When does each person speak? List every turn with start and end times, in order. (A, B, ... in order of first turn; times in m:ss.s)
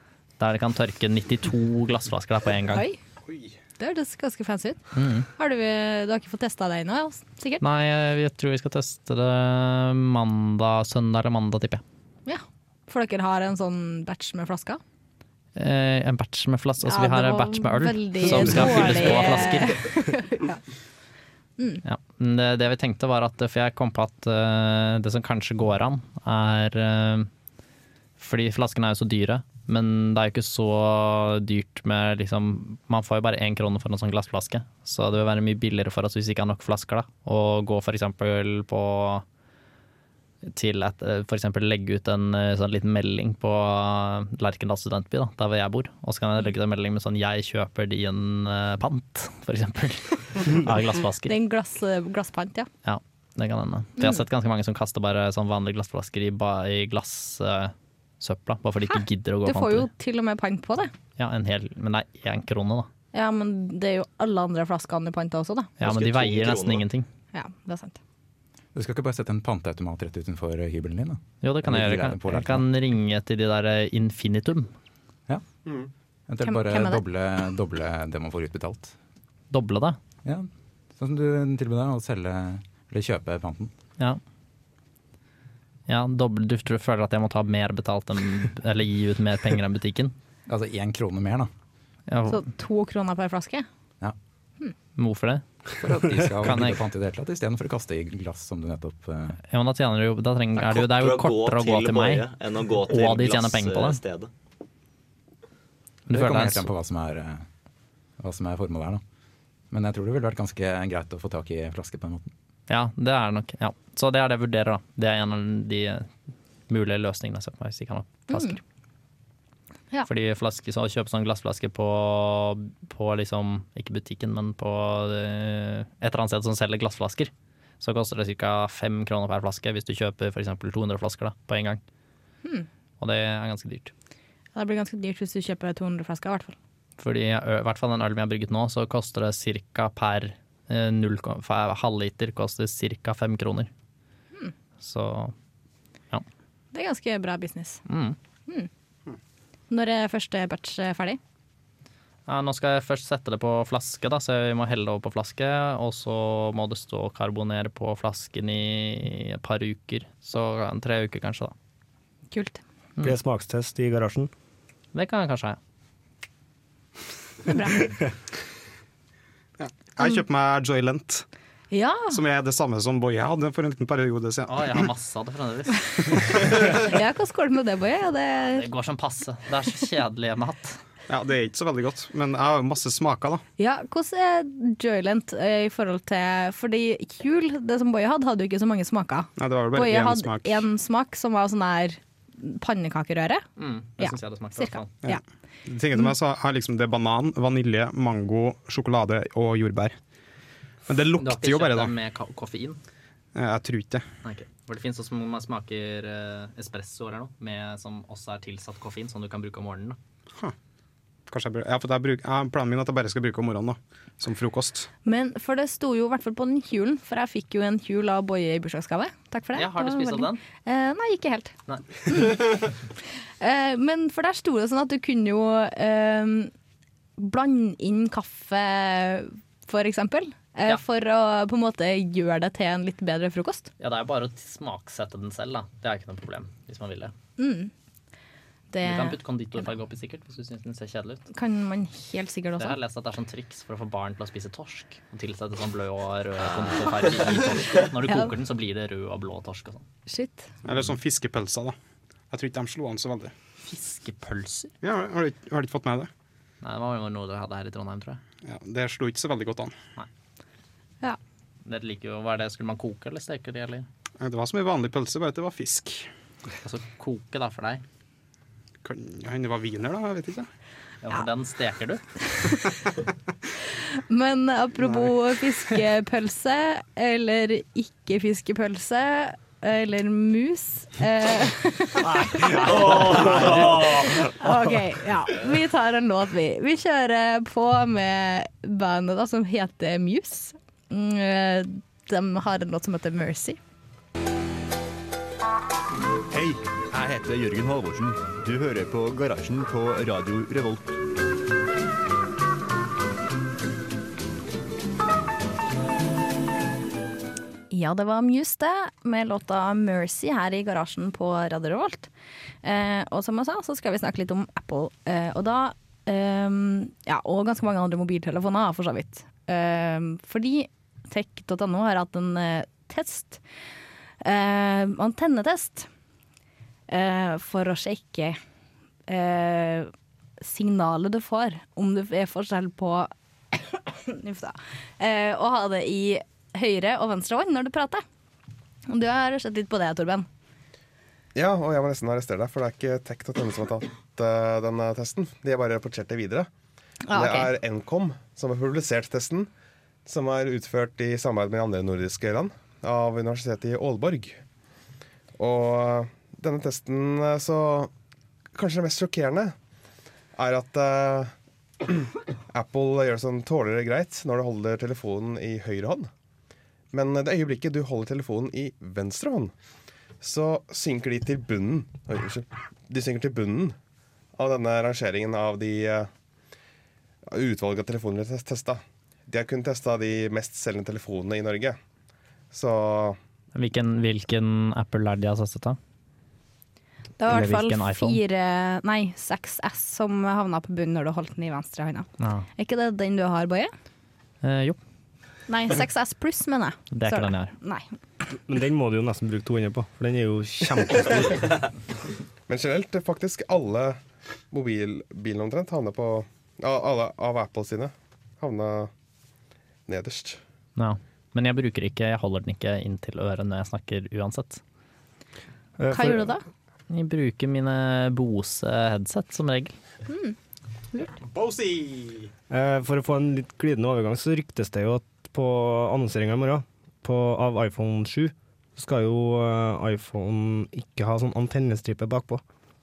0:00.4-0:02.8 A
0:02.7-0:03.0 B
0:03.3-0:03.6 C
0:03.8-0:04.8 B
0:05.0-0:05.3 A
0:05.3-0:07.6 B
0:07.6-0:11.8 A
0:12.3-0:14.8 B
0:15.6-0:19.8 A
0:16.8-0:20.6 B
0:21.8-0:27.3 A
0:28.2-0:39.2 A
0:40.6-0:51.3 A
0:51.2-0:52.7 B
0:52.8-0:59.9 A
0:59.4-1:00.9 B
1:01.2-1:02.9 A
1:03.1-1:05.7 B
1:05.8-1:07.1 A
1:05.8-1:06.8 D
1:07.3-1:08.0 B
1:08.8-1:12.7 E
1:11.4-1:14.7 A
1:15.6-1:15.9 F
1:16.3-1:18.9 E
1:16.4-1:17.0 B
1:19.5-1:20.0 A
1:20.2-1:23.7 E
1:25.9-1:30.1 A
1:30.5-1:31.5 E
1:32.1-1:32.4 A
1:32.3-1:33.7 B
1:35.0-1:35.4 A
1:35.8-1:39.4 E
1:36.4-1:36.8 A
1:39.5-1:42.3 A
1:40.6-1:44.3 D
1:42.8-1:44.0 A
1:46.1-1:46.7 A
1:46.1-1:47.5 E
1:48.2-1:49.0 E
1:49.7-1:52.3 E
1:52.7-1:56.1 A
1:56.7-1:58.6 A
1:58.3-1:58.6 B
2:00.1-2:11.8 A
2:13.0-2:13.9 A
2:14.6-2:16.6 B
2:17.0-2:23.7 A
2:24.8-2:25.3 A
2:26.7-2:27.8 B
2:27.9-2:28.2 A
2:29.7-2:31.2 B
2:32.3-2:41.5 A
2:42.3-2:42.6 B
2:43.0-2:44.3 G
2:44.9-2:45.6 A
2:47.5-2:48.0 B
2:49.6-2:51.2 C
2:51.7-2:52.2 B
2:52.1-2:54.9 C
2:54.5-2:56.3 A
2:56.4-2:58.7 B
2:58.5-3:00.8 A
3:01.1-3:03.4 C
3:03.6-3:13.4 B
3:09.4-3:10.7 C
3:13.6-3:14.9 A
3:14.0-3:15.2 B
3:15.0-3:20.0 C
3:20.9-3:21.9 C
3:21.2-3:22.8 A
3:23.4-3:24.0 C
3:24.2-3:30.0 A
3:31.3-3:34.9 C
3:35.0-3:41.5 B
3:39.6-3:40.4 A
3:42.1-3:42.7 B
3:43.4-3:46.5 B
3:47.2-3:53.7 B
3:53.8-3:57.1 A
3:57.4-3:57.7 B
3:58.7-3:59.6 B
3:58.8-4:01.2 A
4:01.3-4:02.8 B
4:02.6-4:09.8 A
4:08.1-4:08.3 B
4:10.1-4:10.5 B
4:10.6-4:11.8 C
4:12.3-4:13.3 C
4:13.7-4:14.7 A
4:14.8-4:16.1 C
4:16.6-4:18.2 A
4:18.4-4:19.7 C
4:21.6-4:23.9 A
4:24.2-4:26.1 C
4:26.6-4:27.8 A
4:28.8-4:30.5 C
4:31.0-4:32.0 A
4:32.3-4:32.7 B
4:34.0-4:53.6 B
4:42.7-4:43.5 C
4:56.3-5:01.0 H
5:07.7-5:12.1 B
5:12.6-5:23.4 B
5:24.2-5:25.9 B
5:26.9-5:28.4 B
5:29.1-5:38.0 B
5:38.9-5:40.3 B
5:41.4-5:46.5 F
5:47.1-5:47.5 B
5:47.1-5:49.5 F
5:50.1-5:54.4 F
5:55.4-5:57.9 F
5:58.5-5:59.5 F
6:00.4-6:01.3 F
6:01.8-6:06.1 F
6:06.9-6:09.5 F
6:10.2-6:13.8 F
6:14.4-6:16.1 F
6:17.3-6:21.8 F
6:22.5-6:23.2 F
6:23.6-6:25.8 A
6:27.2-6:33.7 B
6:27.3-6:28.2 A
6:32.2-6:32.5 A
6:34.4-6:34.8 A
6:35.5-6:37.9 B
6:36.9-6:37.5 A
6:38.5-6:41.6 G
6:42.5-6:44.0 F
6:44.5-6:48.9 F
6:49.9-6:50.4 F
6:50.8-6:54.6 A
6:55.8-6:56.3 G
6:55.9-6:56.4 B
6:56.9-6:59.8 A
7:00.1-7:00.4 B
7:01.3-7:02.3 C
7:02.5-7:12.4 G